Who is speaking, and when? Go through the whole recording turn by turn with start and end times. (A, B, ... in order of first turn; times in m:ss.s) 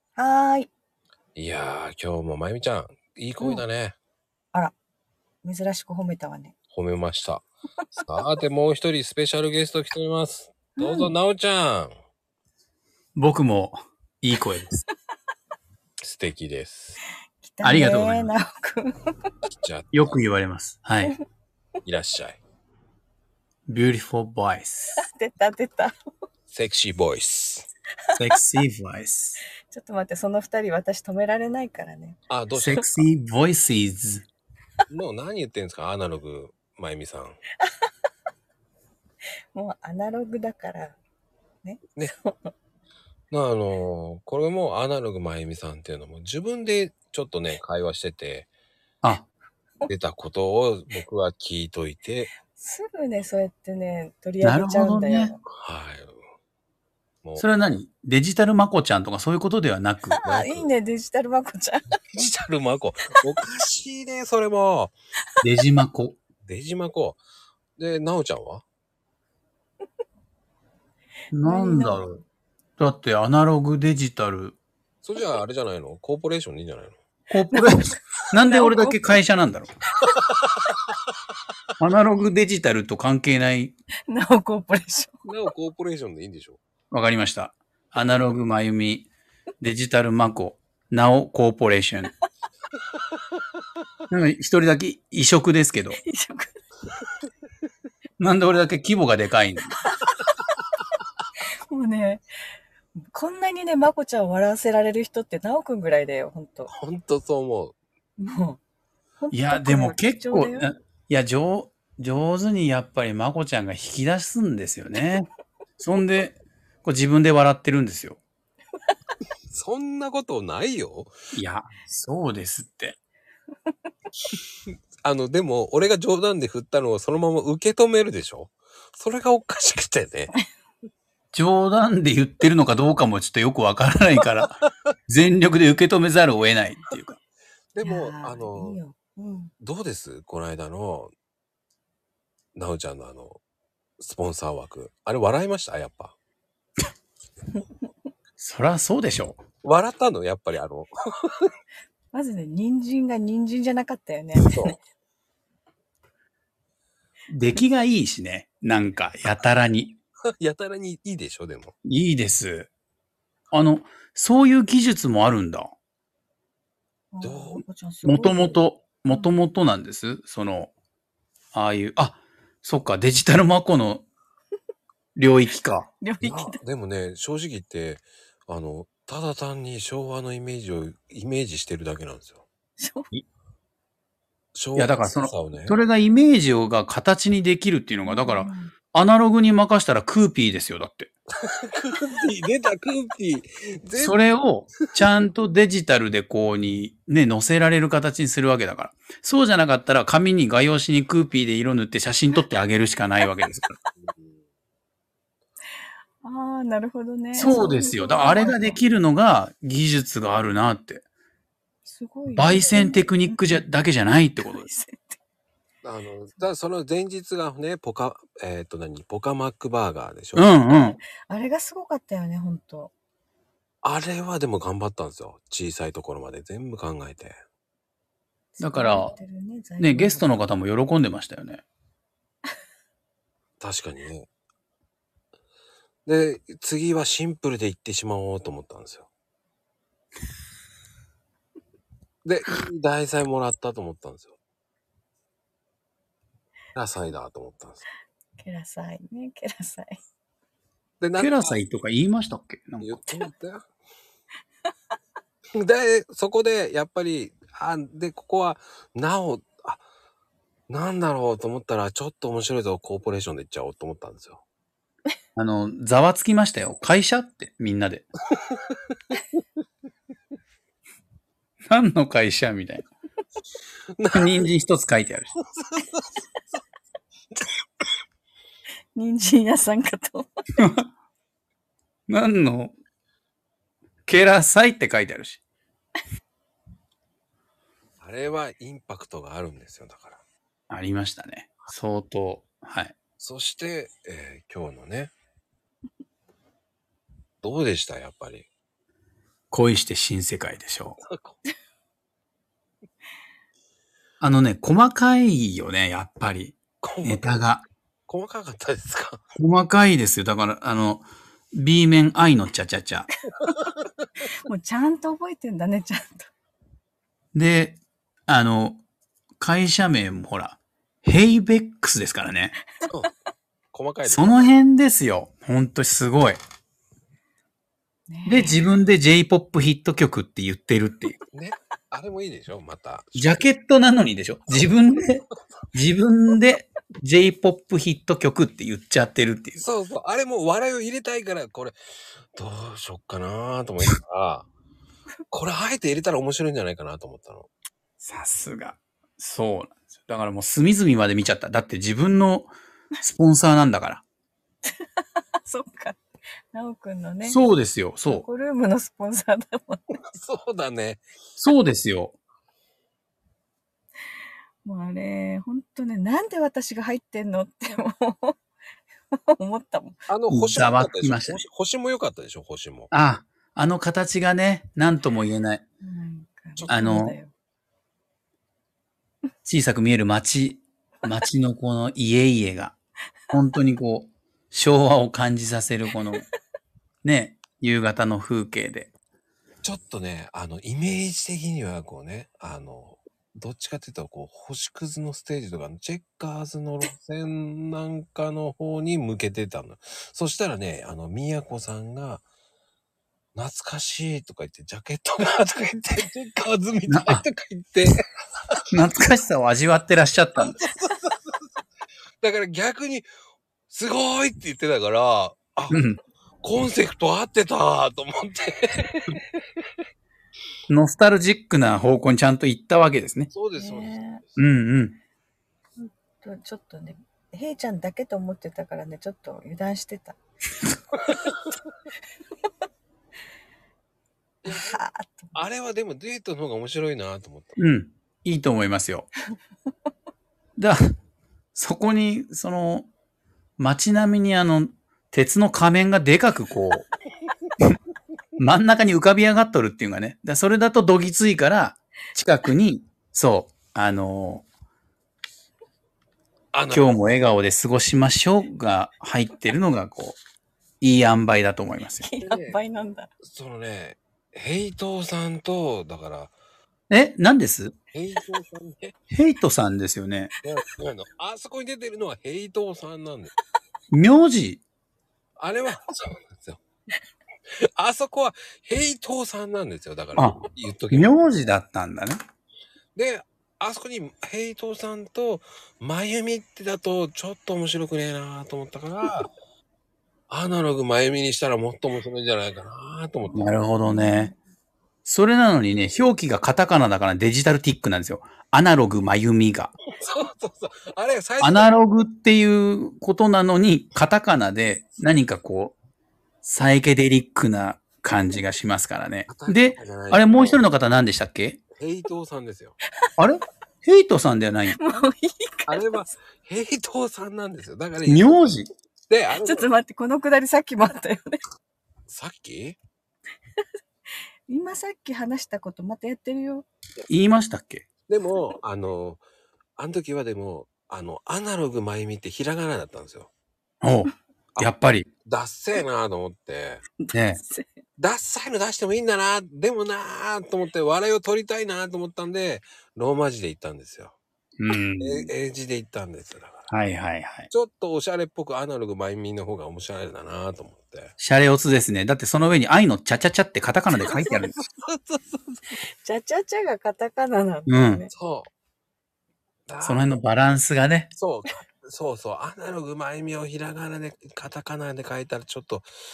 0:00.2-0:00.7 A
0:01.4-0:04.0 B
0:05.4-0:06.6 A
0:06.7-0:11.9 B
0:10.8-0:11.1 A
0:13.2-0:14.8 C
0:16.0-0:17.0 B
0:17.4-0:19.1 A
0:17.6-0:18.3 C
0:19.4-0:20.2 B
0:19.9-0:21.1 C
0:21.8-0:22.4 B
0:23.7-0:25.0 C
0:25.0-0:25.9 A
0:26.5-0:27.7 B
0:28.2-0:29.4 C
0:29.7-0:32.2 A
0:32.3-0:32.9 B
0:32.5-0:34.3 C
0:34.9-0:37.4 B
0:39.5-0:41.0 A
0:41.6-0:42.5 A
0:43.3-0:48.5 B
0:49.0-0:49.3 C
0:49.9-0:52.3 B
0:52.5-0:55.4 A
0:54.4-0:55.3 C
0:55.6-0:56.2 B
0:57.4-1:00.2 C
1:00.1-1:01.8 A
1:00.2-1:00.7 B
1:02.1-1:05.0 B
1:05.4-1:06.2 C
1:06.4-1:07.2 B
1:07.8-1:08.6 B
1:11.3-1:12.2 C
1:11.4-1:12.1 A
1:12.8-1:14.6 C
1:15.0-1:17.0 B
1:17.3-1:19.7 C
1:17.5-1:17.9 A
1:18.5-1:19.2 A
1:21.8-1:23.7 C
1:24.1-1:25.2 A
1:25.2-1:26.6 B
1:26.9-1:29.1 C
1:28.0-1:28.2 B
1:29.6-1:32.1 C
1:34.1-1:36.0 C
1:36.0-1:36.6 A
1:38.2-1:39.8 C
1:40.1-1:40.4 A
1:41.7-1:42.2 A
1:43.0-1:46.7 A
1:46.7-1:47.8 B
1:48.2-1:48.6 A
1:49.2-1:50.7 A
1:49.3-1:55.3 C
1:55.8-1:58.2 C
1:59.5-2:01.1 B
2:01.3-2:03.0 C
2:05.0-2:10.3 B
2:11.3-2:14.6 C
2:15.1-2:17.2 C
2:17.7-2:18.8 B
2:17.8-2:19.5 A
2:19.6-2:21.1 B
2:22.6-2:23.4 B
2:24.0-2:26.2 B
2:28.4-2:29.4 C
2:29.6-2:31.5 B
2:32.1-2:34.8 A
2:34.4-2:34.8 B
2:37.3-2:40.0 C
2:40.4-2:41.7 B
2:41.8-2:42.7 C
2:43.5-2:45.7 C
2:47.1-2:49.4 A
2:47.2-2:47.6 B
2:48.0-2:50.7 C
2:51.5-2:54.0 C
2:55.2-2:55.9 C
2:56.0-2:56.6 A
2:56.2-3:02.4 B
3:02.8-3:03.1 A
3:04.5-3:05.8 B
3:04.8-3:11.1 C
3:08.0-3:08.7 A
3:11.5-3:14.2 B
3:14.0-3:23.8 C
3:24.0-3:24.4 B
3:26.2-3:28.8 A
3:27.4-3:31.0 C
3:31.8-3:33.7 A
3:32.4-3:34.7 C
3:34.4-3:35.2 A
3:35.8-3:40.5 B
3:40.4-3:41.0 C
3:40.7-3:42.9 A
3:43.8-3:47.4 B
3:48.6-3:50.3 A
3:48.6-3:49.1 C
3:49.8-3:51.6 C
3:53.6-3:54.3 B
3:56.0-3:59.1 B
4:02.2-4:04.4 B
4:06.8-4:07.8 B
4:08.4-4:10.0 A
4:11.0-4:11.6 B
4:11.2-4:13.2 C
4:12.8-4:13.6 B
4:15.6-4:19.8 B
4:20.7-4:24.4 B
4:25.4-4:28.1 C
4:31.7-4:32.9 C
4:34.0-4:34.4 B
4:34.1-4:35.3 C
4:35.6-4:36.0 B
4:39.0-4:40.3 A
4:40.6-4:40.9 C
4:42.1-4:42.7 C
4:44.1-4:45.4 C
4:48.0-4:50.2 B
4:50.7-4:53.0 C
4:53.2-4:55.1 B
4:57.4-4:58.5 B
4:59.5-5:01.0 C
5:01.0-5:01.4 B
5:04.2-5:07.6 C
5:06.8-5:07.5 B
5:08.1-5:09.2 B
5:09.4-5:13.1 C
5:14.4-5:16.3 A
5:17.3-5:18.8 C
5:19.4-5:22.6 C
5:23.7-5:24.5 B
5:24.0-5:26.4 C
5:28.1-5:28.8 A
5:28.3-5:31.2 C
5:31.3-5:33.5 B
5:33.2-5:39.6 C
5:39.6-5:41.8 B
5:42.4-5:44.5 B
5:45.3-5:47.5 B
5:48.0-5:52.5 C
5:53.0-5:54.0 C
5:55.4-5:56.0 A
5:56.5-5:57.5 A
5:57.2-5:58.2 C
5:58.0-6:00.0 A
6:00.1-6:01.0 B
6:01.4-6:02.2 C
6:04.6-6:08.4 A
6:09.1-6:10.0 A
6:10.1-6:12.9 B
6:10.3-6:11.4 C
6:12.9-6:15.6 C
6:15.8-6:17.3 A
6:16.7-6:17.2 C
6:19.5-6:22.8 C
6:23.3-6:26.2 C
6:27.0-6:28.9 C
6:29.6-6:42.2 B
6:43.4-6:48.0 B
6:46.9-6:47.2 C
6:48.7-6:50.6 C
6:50.4-6:51.3 B
6:52.2-6:53.1 B
6:53.7-6:55.8 B
6:55.7-6:56.0 C
6:56.4-6:59.2 B
7:00.7-7:03.3 C
7:03.3-7:04.4 B
7:03.6-7:04.2 A
7:04.4-7:05.0 C
7:05.8-7:10.2 A
7:14.4-7:14.8 B
7:14.5-7:15.3 A
7:15.3-7:17.6 B
7:17.6-7:19.1 C
7:21.6-7:22.9 C
7:23.6-7:26.9 C
7:28.4-7:34.4 C
7:36.5-7:37.0 B
7:36.7-7:40.2 C
7:40.8-7:42.0 C
7:42.0-7:43.1 A
7:42.2-7:42.6 B
7:43.2-7:46.3 B
7:46.9-7:47.8 C
7:47.9-7:49.0 B
7:49.1-7:50.3 C
7:50.4-7:53.3 B
7:53.9-7:54.6 C
7:55.4-7:56.6 B
7:57.7-8:01.2 B
8:00.9-8:02.2 C
8:03.0-8:09.3 B
8:10.3-8:13.6 B
8:13.3-8:14.3 C
8:13.8-8:14.4 A
8:15.0-8:19.8 C
8:19.9-8:21.8 B
8:21.4-8:25.8 C
8:26.4-8:31.6 C
8:29.3-8:30.6 B
8:31.8-8:32.8 B
8:33.2-8:34.8 C
8:34.7-8:35.9 A
8:35.7-8:38.4 B
8:38.0-8:38.7 C
8:39.1-8:39.7 B
8:39.4-8:41.4 A
8:42.1-8:42.8 B
8:44.5-8:46.7 A
8:47.1-8:47.9 C
8:48.1-8:49.2 B
8:49.8-8:53.3 B
8:53.8-8:55.1 C
8:55.2-8:56.8 B
8:57.0-8:57.7 A
8:57.1-8:57.4 C
8:58.0-9:04.2 B
9:04.6-9:05.3 C
9:05.0-9:06.7 B
9:06.7-9:07.5 C
9:07.5-9:11.1 B
9:11.2-9:14.6 C
9:13.9-9:15.7 B
9:16.0-9:18.1 A
9:17.7-9:18.0 C
9:18.1-9:18.5 B
9:19.7-9:20.1 B
9:19.8-9:21.1 C
9:21.2-9:25.9 B